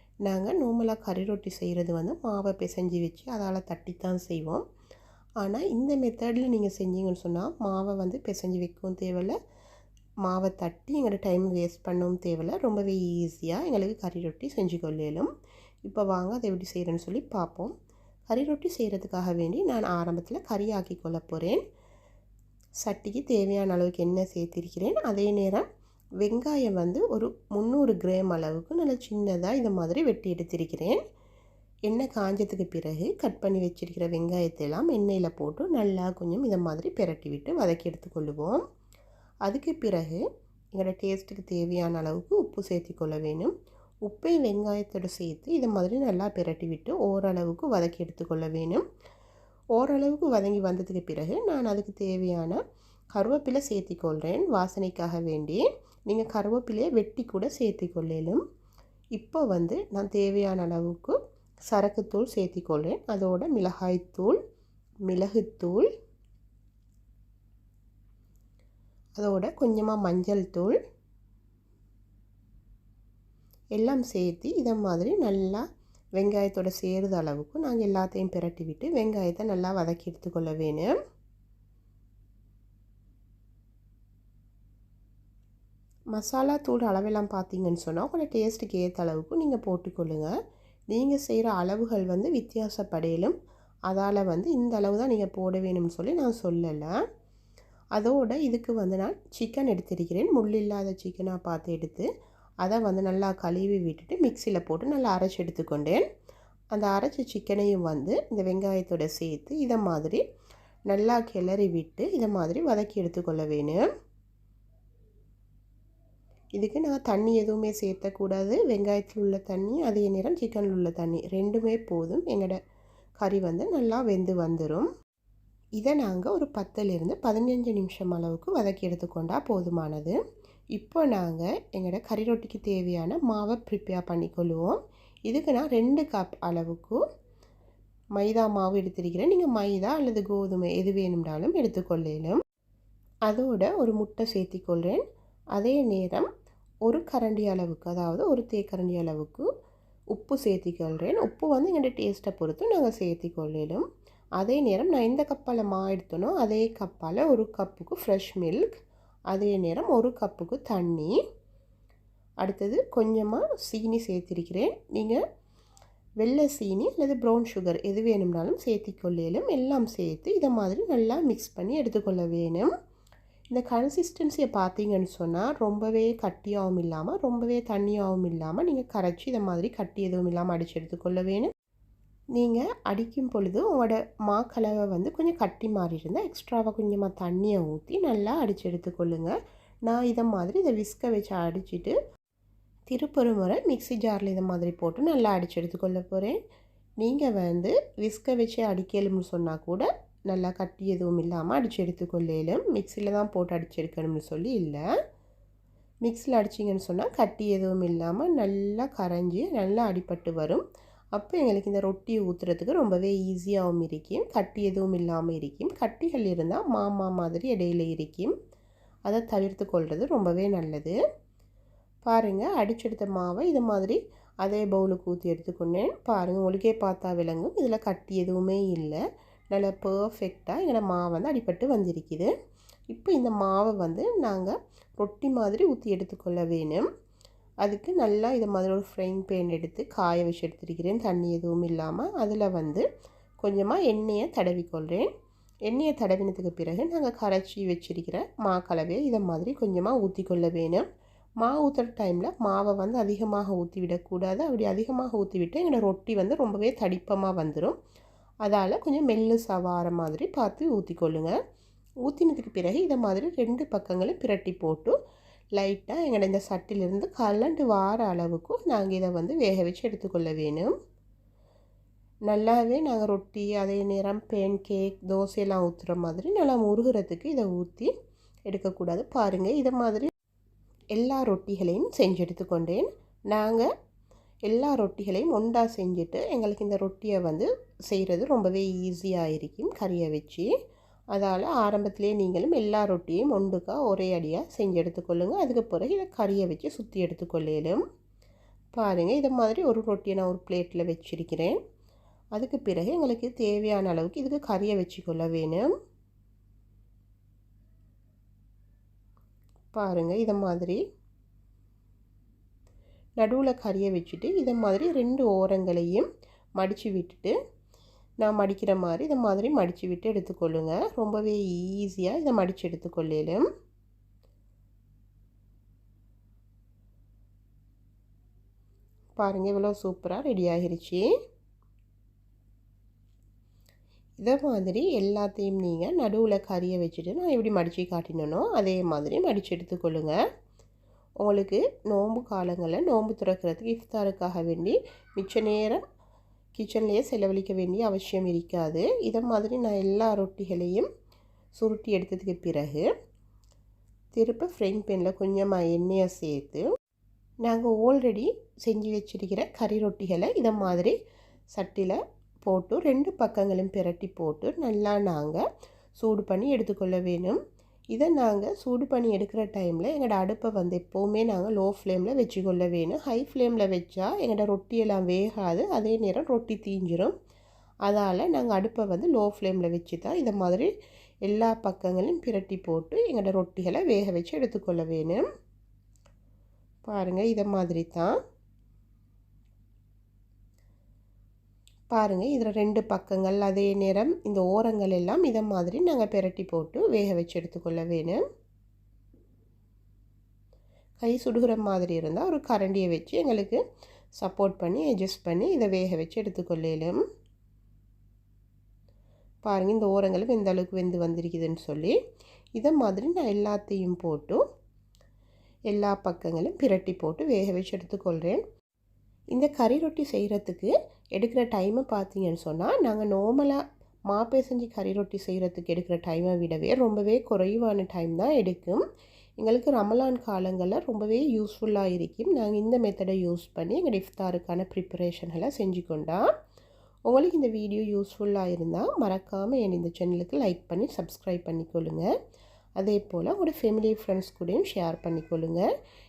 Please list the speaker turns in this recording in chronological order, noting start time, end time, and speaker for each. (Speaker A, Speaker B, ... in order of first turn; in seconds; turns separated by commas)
Speaker A: 0.2-4.6, Speaker A: 5.4-9.3, Speaker A: 10.2-15.3, Speaker A: 15.8-17.7, Speaker A: 18.3-21.6, Speaker A: 22.8-25.6, Speaker A: 26.2-31.0, Speaker A: 31.9-38.6, Speaker A: 39.4-40.2, Speaker A: 40.8-43.5, Speaker A: 44.0-48.8, Speaker A: 49.8-52.6, Speaker A: 53.1-58.4, Speaker A: 59.1-61.2, Speaker A: 61.7-64.4, Speaker A: 65.1-65.9, Speaker A: 69.2-70.8, Speaker A: 73.8-75.6, Speaker A: 76.2-80.9, Speaker A: 86.1-90.3, Speaker A: 90.9-93.3, Speaker A: 93.9-97.0, Speaker A: 98.0-102.1, Speaker A: 102.6-106.0, Speaker A: 106.7-110.2, Speaker A: 110.9-113.9, Speaker A: 116.6-122.6, Speaker A: 123.2-124.9, Speaker A: 125.8-130.2, Speaker A: 130.7-137.0, Speaker A: 138.2-142.4, Speaker A: 143.3-145.0, Speaker A: 145.5-146.3, Speaker A: 146.8-149.5, Speaker A: 150.1-153.8, Speaker A: 154.4-158.8, Speaker A: 159.3-161.1, Speaker A: 162.4-165.2, Speaker A: 166.2-172.7, Speaker A: 173.5-181.5, Speaker A: 182.3-189.3, Speaker A: 189.8-191.9, Speaker A: 192.9-196.4, Speaker A: 197.0-204.8, Speaker A: 206.0-210.6, Speaker A: 211.1-218.3, Speaker A: 219.1-220.9, Speaker A: 222.0-229.0, Speaker A: 229.5-232.3, Speaker A: 232.9-236.9, Speaker A: 237.6-242.8, Speaker A: 243.4-245.1, Speaker A: 245.7-250.9, Speaker A: 251.4-257.8, Speaker A: 258.4-261.3, Speaker A: 262.0-264.9, Speaker A: 265.6-270.7, Speaker A: 272.3-277.9, Speaker A: 278.5-280.1, Speaker A: 280.9-283.7, Speaker A: 284.5-290.5, Speaker A: 291.1-297.8, Speaker A: 298.7-301.6, Speaker A: 302.4-305.7, Speaker A: 309.7-310.8, Speaker A: 313.2-316.1, Speaker A: 316.6-317.3, Speaker A: 318.2-323.4, Speaker A: 329.2-331.1, Speaker A: 334.2-340.1, Speaker A: 341.2-345.8, Speaker A: 346.5-350.9, Speaker A: 351.6-352.9, Speaker A: 354.1-356.6, Speaker A: 357.4-360.9, Speaker A: 361.5-365.4, Speaker A: 366.0-367.4, Speaker A: 367.9-377.1, Speaker A: 377.9-380.7, Speaker A: 381.2-385.3, Speaker A: 386.9-388.1, Speaker A: 391.9-398.2, Speaker A: 401.0-403.6, Speaker A: 404.2-407.0, Speaker A: 409.4-411.9, Speaker A: 412.6-414.4, Speaker A: 415.7-418.4, Speaker A: 419.3-428.8, Speaker A: 429.4-436.3, Speaker A: 437.1-442.1, Speaker A: 442.8-445.6